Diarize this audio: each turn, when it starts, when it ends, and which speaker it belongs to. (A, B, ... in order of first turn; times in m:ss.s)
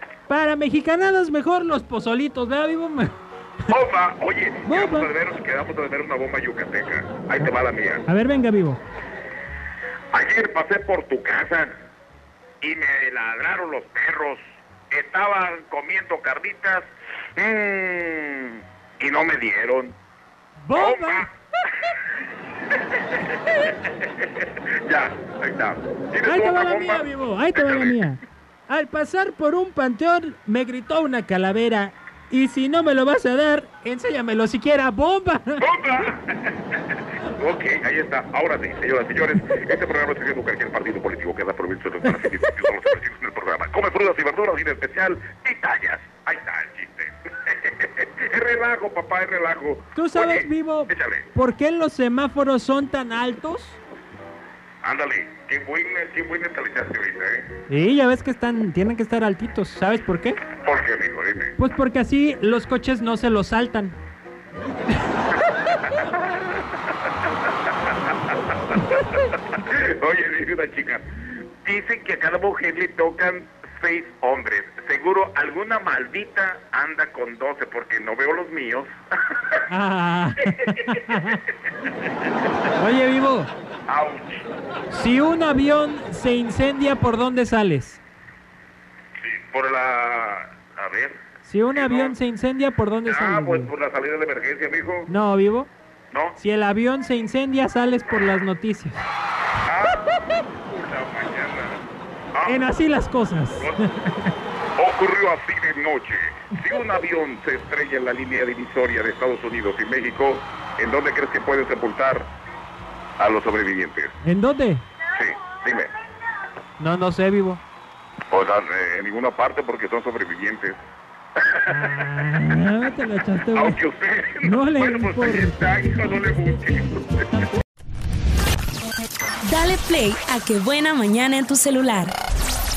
0:00.3-0:03.1 A
0:03.7-0:08.0 B
0:04.7-0:05.1 A
0:08.1-0:08.8 A
0:10.1-0:11.7 B
0:12.6-0:14.4 B
0:14.9-0:20.0 B
0:20.6-0:21.3 A
0:20.7-0:21.3 B
0:22.8-0:28.0 B
0:26.2-0:35.7 A
0:35.6-0:36.8 B
0:37.4-0:51.3 B
0:50.0-0:53.8 A
0:54.8-0:57.5 B
0:57.7-1:00.4 A
1:00.6-1:01.6 B
1:01.6-1:04.0 A
1:05.8-1:06.6 B
1:07.9-1:09.0 B
1:09.5-1:11.1 B
1:11.6-1:19.6 B
1:19.7-1:21.4 A
1:20.6-1:21.0 B
1:22.8-1:23.5 A
1:23.9-1:24.4 B
1:24.9-1:28.0 A
1:29.2-1:31.2 B
1:31.4-1:33.7 A
1:31.7-1:32.2 B
1:33.1-1:35.1 B
1:35.1-1:35.7 A
1:36.1-1:36.4 B
1:36.4-1:39.0 A
1:39.7-1:40.1 B
1:40.7-1:41.8 B
1:42.3-1:42.6 B
1:42.5-1:44.3 A
1:44.8-1:52.3 B
1:53.2-1:54.1 B
1:54.2-1:54.8 A
1:55.1-1:55.9 B
1:56.8-1:57.6 A
1:58.3-2:00.8 B
2:01.6-2:01.9 B
2:01.7-2:03.8 A
2:03.5-2:07.5 B
2:04.4-2:05.6 A
2:09.4-2:12.2 C